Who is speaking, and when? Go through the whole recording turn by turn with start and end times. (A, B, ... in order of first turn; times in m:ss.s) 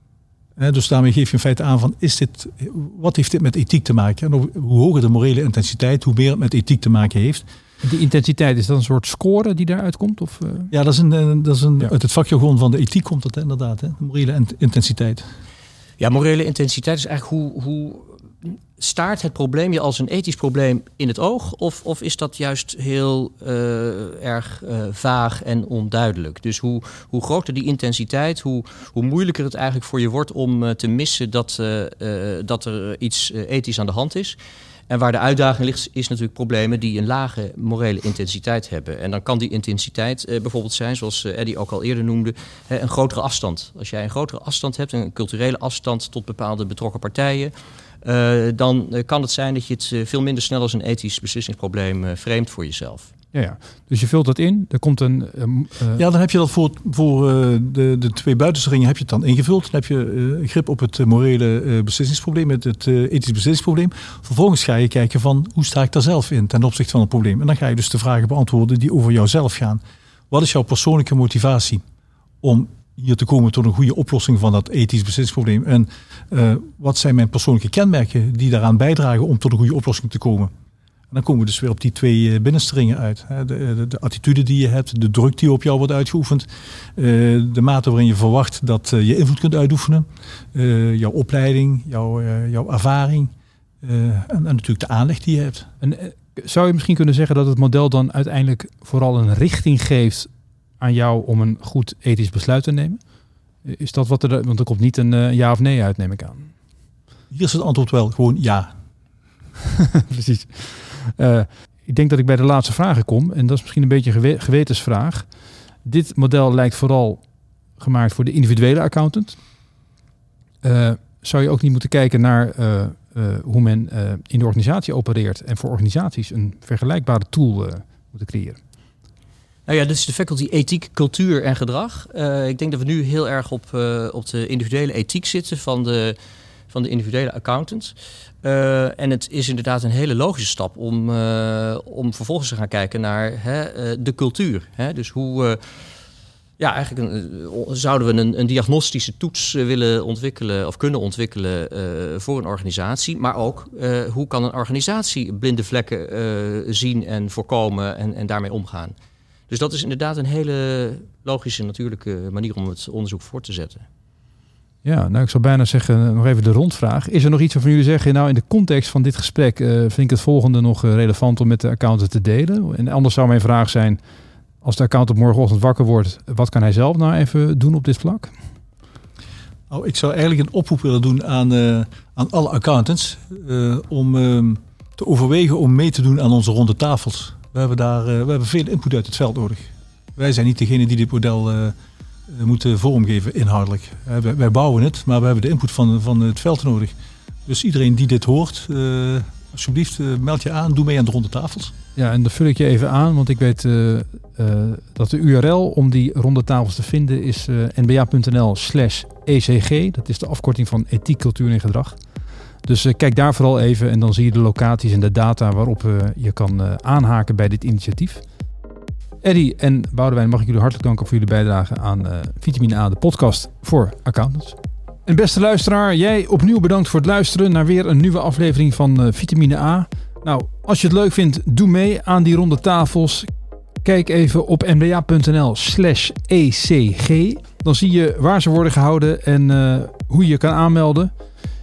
0:00.6-0:07.4 A
0:07.8-0:10.7 B
0:10.7-0:15.2 A
0:16.0-0:34.4 C
0:34.9-0:53.1 C
0:53.3-0:56.0 B
0:56.0-1:09.8 A
1:10.3-1:11.8 A
1:12.4-1:20.5 A
1:21.1-1:35.7 A
1:35.8-1:40.3 B
1:40.8-1:43.0 B
1:43.6-1:46.5 B
1:47.3-1:48.7 A
1:49.8-1:55.3 B
1:55.8-1:57.2 B
1:57.8-1:59.4 B
2:00.6-2:08.6 B
2:09.7-2:16.2 C
2:16.7-2:25.6 C
2:26.6-2:38.9 C
2:39.5-2:43.8 C
2:44.8-2:54.0 B
2:54.6-2:58.3 B
2:59.7-3:11.8 A
3:12.3-3:16.9 A
3:17.4-3:21.7 A
3:22.0-3:32.0 B
3:32.6-3:38.2 B
3:39.2-3:53.3 B
3:53.8-4:01.1 B